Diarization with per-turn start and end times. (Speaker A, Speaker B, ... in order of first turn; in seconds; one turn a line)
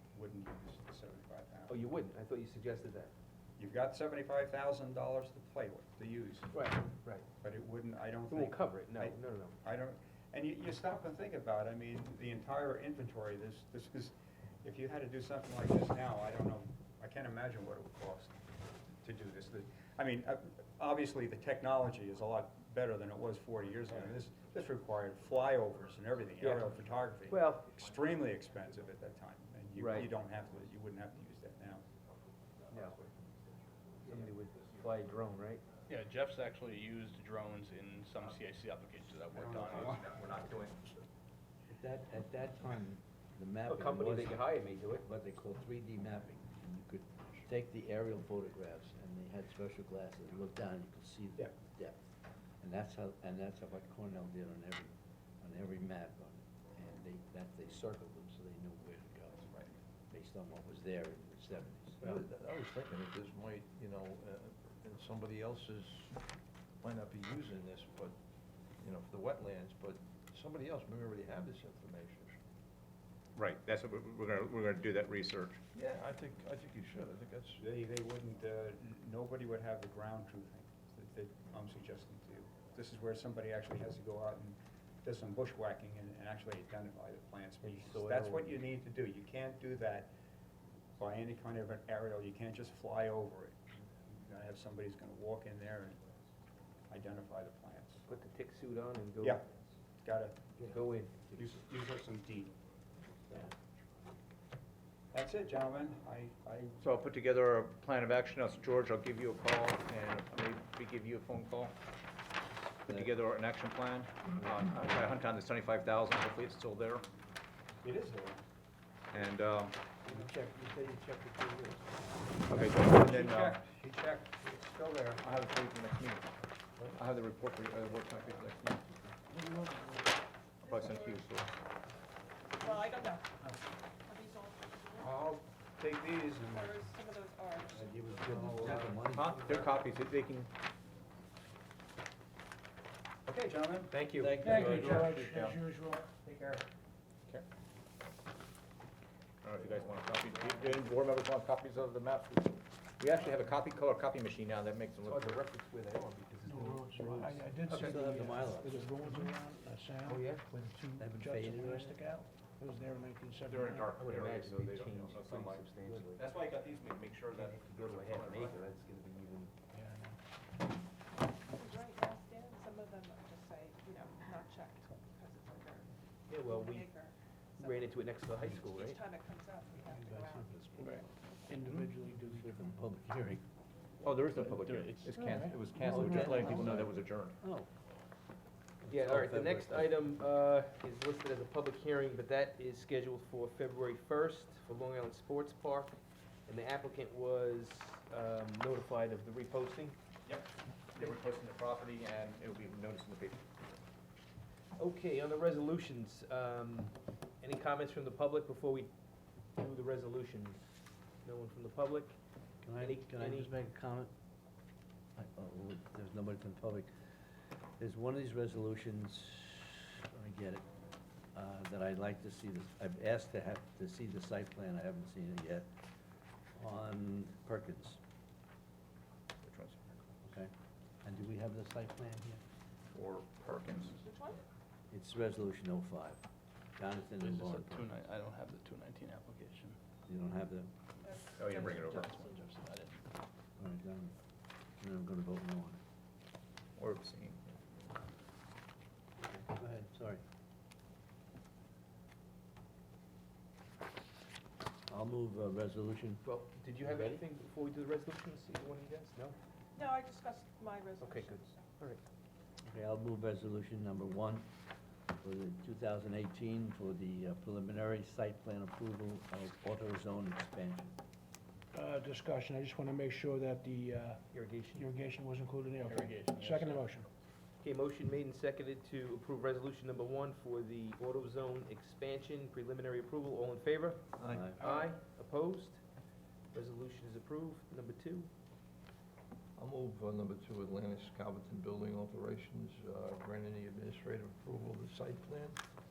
Speaker A: 0.1-1.8
Speaker B: 1.7-3.1
Speaker A: 3.6-6.6
Speaker B: 6.5-7.2
Speaker A: 7.4-18.4
Speaker B: 8.3-9.6
Speaker A: 19.0-31.8
Speaker B: 26.4-26.8
Speaker B: 27.3-27.7
Speaker B: 29.8-30.1
Speaker B: 32.7-33.0
Speaker C: 32.8-33.3
Speaker B: 34.0-35.6
Speaker C: 34.1-34.6
Speaker D: 35.9-39.5
Speaker A: 39.3-40.0
Speaker C: 39.5-40.9
Speaker E: 41.7-44.4
Speaker B: 43.7-45.1
Speaker E: 45.0-62.2
Speaker F: 62.0-66.2
Speaker F: 66.8-68.2
Speaker F: 68.8-72.4
Speaker C: 73.4-75.6
Speaker F: 75.7-77.7
Speaker A: 77.6-90.1
Speaker B: 87.6-88.6
Speaker A: 91.0-96.2
Speaker A: 96.9-98.1
Speaker B: 98.1-99.6
Speaker A: 100.0-100.4
Speaker B: 100.6-101.2
Speaker A: 101.3-102.5
Speaker A: 105.1-107.0
Speaker C: 106.8-111.8
Speaker C: 112.9-117.1
Speaker A: 117.8-118.4
Speaker C: 119.1-119.9
Speaker B: 120.0-121.8
Speaker C: 122.5-123.6
Speaker A: 122.5-125.3
Speaker C: 125.2-126.3
Speaker C: 126.9-128.9
Speaker G: 129.3-130.0
Speaker C: 130.6-131.5
Speaker H: 130.7-131.2
Speaker H: 132.6-133.3
Speaker H: 134.0-135.1
Speaker A: 135.0-136.8
Speaker H: 136.5-137.8
Speaker E: 137.7-139.5
Speaker A: 138.2-139.7
Speaker C: 139.0-140.5
Speaker A: 143.2-145.3
Speaker B: 143.9-144.9
Speaker E: 144.2-145.1
Speaker G: 144.4-146.0
Speaker C: 144.6-145.6
Speaker A: 145.9-146.7
Speaker C: 149.4-155.4
Speaker B: 155.0-158.2
Speaker G: 156.4-163.9
Speaker E: 157.7-158.9
Speaker B: 160.0-160.7
Speaker E: 161.0-162.0
Speaker C: 163.5-168.6
Speaker B: 163.9-166.2
Speaker B: 167.3-169.5
Speaker G: 169.7-170.2
Speaker H: 171.4-181.5
Speaker B: 176.3-176.9
Speaker B: 177.6-179.0
Speaker G: 179.9-182.7
Speaker E: 182.2-183.4
Speaker C: 184.0-187.4
Speaker D: 184.3-185.1
Speaker G: 185.1-186.8
Speaker E: 185.8-187.7
Speaker E: 188.8-189.9
Speaker B: 188.9-200.0
Speaker C: 200.2-203.5
Speaker B: 204.8-208.9
Speaker B: 209.6-212.2
Speaker E: 212.6-214.1
Speaker B: 212.8-213.5
Speaker E: 215.2-217.2
Speaker E: 217.8-220.6
Speaker E: 221.3-225.7
Speaker E: 226.5-228.0
Speaker C: 229.4-230.0
Speaker E: 230.2-230.5
Speaker E: 231.0-232.4
Speaker C: 232.9-234.0
Speaker H: 234.0-234.4
Speaker E: 234.9-236.2
Speaker E: 236.8-238.1
Speaker D: 237.2-239.8
Speaker E: 240.1-240.7
Speaker H: 241.0-242.5
Speaker C: 241.4-242.2
Speaker D: 242.1-243.0
Speaker E: 243.6-244.1
Speaker E: 244.8-245.8
Speaker C: 246.8-247.8
Speaker E: 249.4-250.2
Speaker E: 254.9-256.2
Speaker B: 256.2-259.4
Speaker E: 256.8-257.2
Speaker H: 259.8-261.6
Speaker B: 261.0-262.0
Speaker E: 262.7-264.5
Speaker E: 265.2-270.9
Speaker G: 271.7-277.1
Speaker B: 274.3-274.9
Speaker C: 275.9-276.5
Speaker D: 276.4-276.9
Speaker B: 277.6-285.8
Speaker F: 284.2-284.5
Speaker E: 284.3-284.6
Speaker B: 286.5-288.3
Speaker F: 289.6-295.6